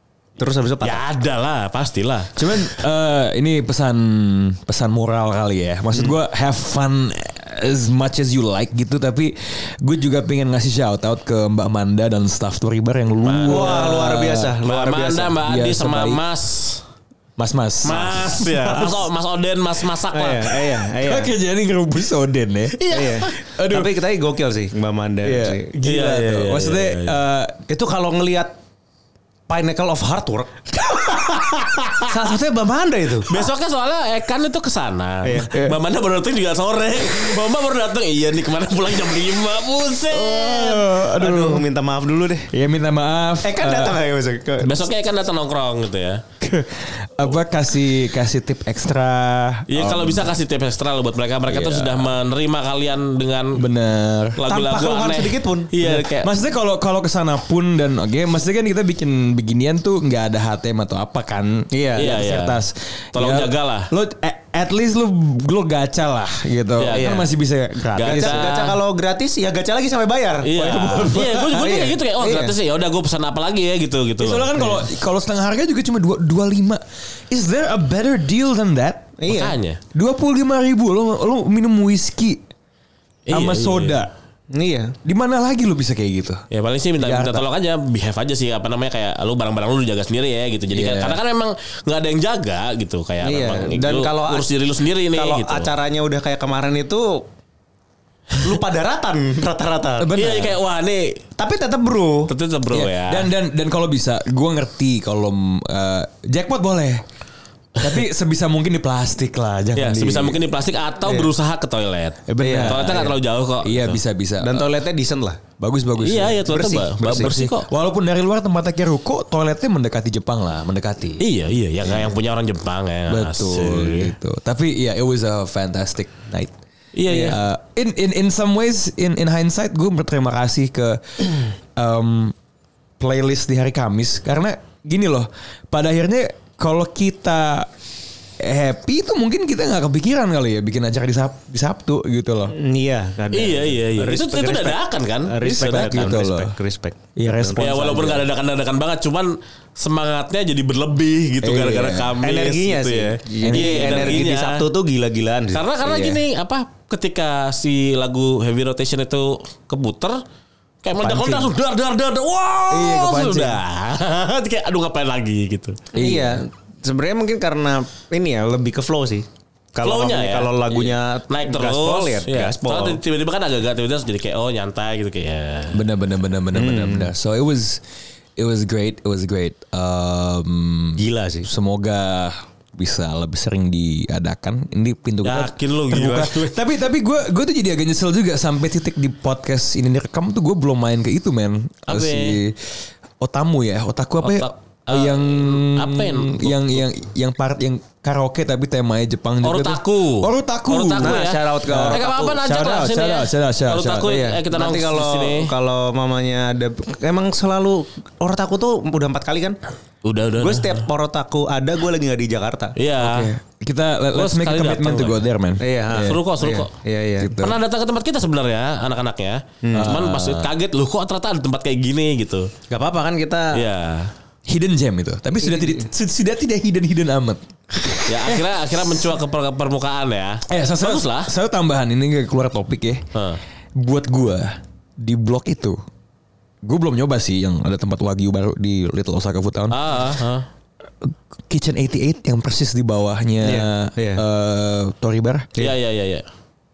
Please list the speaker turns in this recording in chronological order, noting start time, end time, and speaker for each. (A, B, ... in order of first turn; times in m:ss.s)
0:00.4-0:01.0 A
0:00.8-0:02.7 B
0:02.4-0:14.6 C
0:13.2-0:14.0 B
0:13.5-0:15.4 A
0:14.6-0:16.8 B
0:15.4-0:16.2 C
0:17.4-0:19.0 C
0:17.8-0:20.6 B
0:20.1-0:21.3 A
0:21.0-0:22.8 C
0:22.8-0:23.3 B
0:22.9-0:25.7 A
0:23.4-0:23.9 C
0:25.2-0:27.6 C
0:25.8-0:27.2 B
0:27.7-0:28.6 A
0:29.5-0:33.4 A
0:31.8-0:32.1 B
0:33.3-0:40.9 B
0:35.2-0:35.8 A
0:40.1-0:41.6 C
0:41.2-0:42.5 A
0:42.5-0:44.0 C
0:43.4-0:44.8 A
0:44.6-0:46.2 B
0:46.4-0:50.3 C
0:49.7-0:53.6 B
0:51.5-0:52.1 C
0:53.6-0:54.4 C
0:54.4-0:56.3 B
0:54.5-0:55.7 A
0:55.8-1:08.5 C
1:01.7-1:02.1 A
1:02.0-1:02.6 B
1:03.1-1:03.9 B
1:06.8-1:07.2 B
1:06.9-1:07.3 A
1:08.0-1:08.8 B
1:08.0-1:12.6 A
1:10.4-1:14.8 B
1:10.6-1:11.8 C
1:14.2-1:19.1 C
1:19.2-1:19.6 A
1:19.3-1:19.8 B
1:20.0-1:22.4 C
1:23.3-1:24.0 B
1:23.3-1:24.1 C
1:24.5-1:25.0 A
1:25.0-1:26.4 C
1:26.5-1:35.7 B
1:27.0-1:27.4 C
1:30.7-1:31.2 C
1:33.2-1:34.5 A
1:35.1-1:37.3 A
1:38.4-1:40.1 A
1:40.0-1:40.6 C
1:40.2-1:41.2 B
1:41.4-1:42.3 A
1:42.3-1:43.3 B
1:42.7-1:47.0 C
1:47.8-1:50.4 C
1:49.8-1:54.0 B
1:51.1-1:51.3 A
1:52.3-1:54.7 C
1:52.4-1:53.1 A
1:54.4-1:55.4 A
1:55.6-1:56.5 C
1:56.0-1:57.7 B
1:56.5-1:57.5 A
1:57.0-2:01.2 C
2:01.2-2:04.1 B
2:03.1-2:06.6 C
2:07.0-2:07.4 B
2:07.1-2:12.4 C
2:13.0-2:17.7 C
2:18.4-2:22.6 C
2:22.5-2:27.7 A
2:23.3-2:26.1 B
2:25.4-2:26.5 C
2:27.2-2:28.2 C
2:27.6-2:34.6 B
2:31.4-2:32.2 C
2:32.2-2:36.1 A
2:33.4-2:34.3 C
2:35.5-2:40.2 B
2:40.8-2:45.9 B
2:41.1-2:41.5 A
2:42.7-2:43.6 C
2:45.9-2:46.4 C
2:46.0-2:53.0 A
2:49.8-2:55.8 B
2:55.7-2:57.8 C
2:56.5-2:57.1 A
2:58.4-3:24.1 C
3:01.0-3:01.5 A
3:05.2-3:06.6 B
3:11.9-3:12.4 B
3:14.2-3:16.8 B
3:19.4-3:25.5 B
3:21.0-3:22.4 A
3:24.0-3:29.6 A
3:30.0-3:30.9 B
3:30.4-3:32.8 A
3:32.8-3:33.3 B
3:33.0-3:36.2 C
3:34.1-3:35.2 B
3:35.6-3:37.4 A
3:35.9-3:36.7 B
3:37.2-3:37.6 C
3:37.4-3:42.5 B
3:39.6-3:40.0 A
3:39.7-3:40.5 C
3:42.7-3:43.6 A
3:43.5-3:44.1 B
3:44.5-3:48.5 C
3:45.5-3:45.8 A
3:48.1-3:51.3 B
3:50.5-3:53.1 C
3:53.1-3:53.4 B
3:53.8-3:55.8 C
3:56.6-3:59.8 C
3:59.7-4:00.5 B
4:01.0-4:05.5 C
4:03.4-4:04.2 A
4:05.6-4:06.3 B